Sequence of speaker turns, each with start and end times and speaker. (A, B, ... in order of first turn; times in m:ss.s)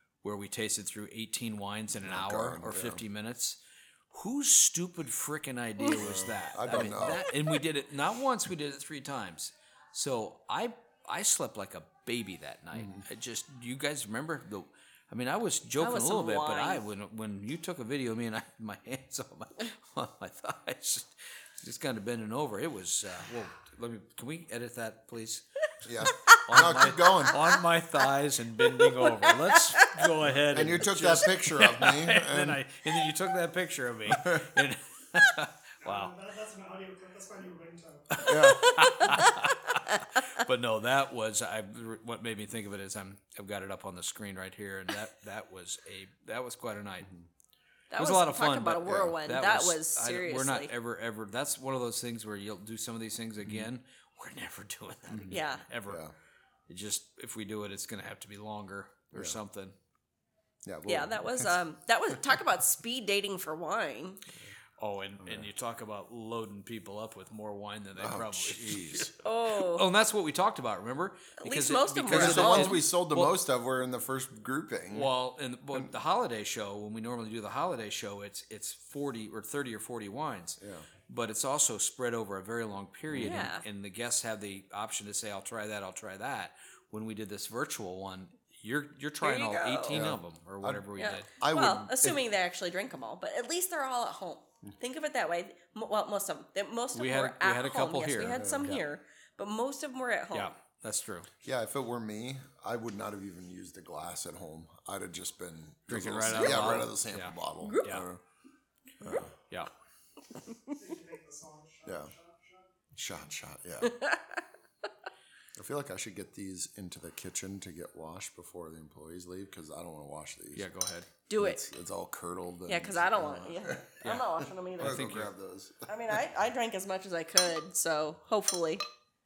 0:00.2-0:25.4 A
0:02.0-0:03.0 B
0:06.0-0:07.3 B
0:12.7-0:13.0 B
0:15.8-0:16.8 C
0:25.8-0:27.4 B
0:26.3-0:36.1 A
0:28.7-0:30.1 C
0:30.2-0:32.6 B
0:34.1-0:34.6 B
0:35.8-0:38.3 D
0:38.1-0:47.1 A
0:38.2-0:38.9 B
0:38.7-0:39.3 C
0:47.9-0:50.7 C
0:47.9-0:56.0 A
0:48.8-0:49.2 B
0:55.1-0:55.3 B
0:55.3-0:55.6 C
0:55.9-0:56.1 B
0:56.7-0:59.8 A
0:59.1-0:59.4 B
1:00.6-1:01.6 B
1:00.9-1:04.2 C
1:04.8-1:13.4 A
1:05.2-1:05.5 B
1:08.0-1:09.1 B
1:09.2-1:09.9 C
1:11.4-1:12.9 C
1:12.1-1:15.1 B
1:14.9-1:31.3 A
1:20.6-1:20.9 B
1:23.1-1:23.5 B
1:23.2-1:23.6 C
1:29.2-1:30.1 C
1:29.9-1:32.2 B
1:31.0-1:40.5 C
1:36.9-1:38.4 A
1:38.3-1:38.8 B
1:40.3-1:41.3 A
1:41.4-1:48.2 B
1:45.9-1:48.1 A
1:47.6-1:48.0 C
1:49.0-1:49.3 B
1:50.7-1:52.7 D
1:51.8-1:52.1 B
1:52.9-1:54.0 B
1:53.8-1:54.4 C
1:55.5-2:00.7 B
2:00.5-2:01.1 A
2:01.3-2:01.6 C
2:01.4-2:06.2 B
2:02.7-2:05.1 C
2:04.8-2:05.3 A
2:05.8-2:08.8 C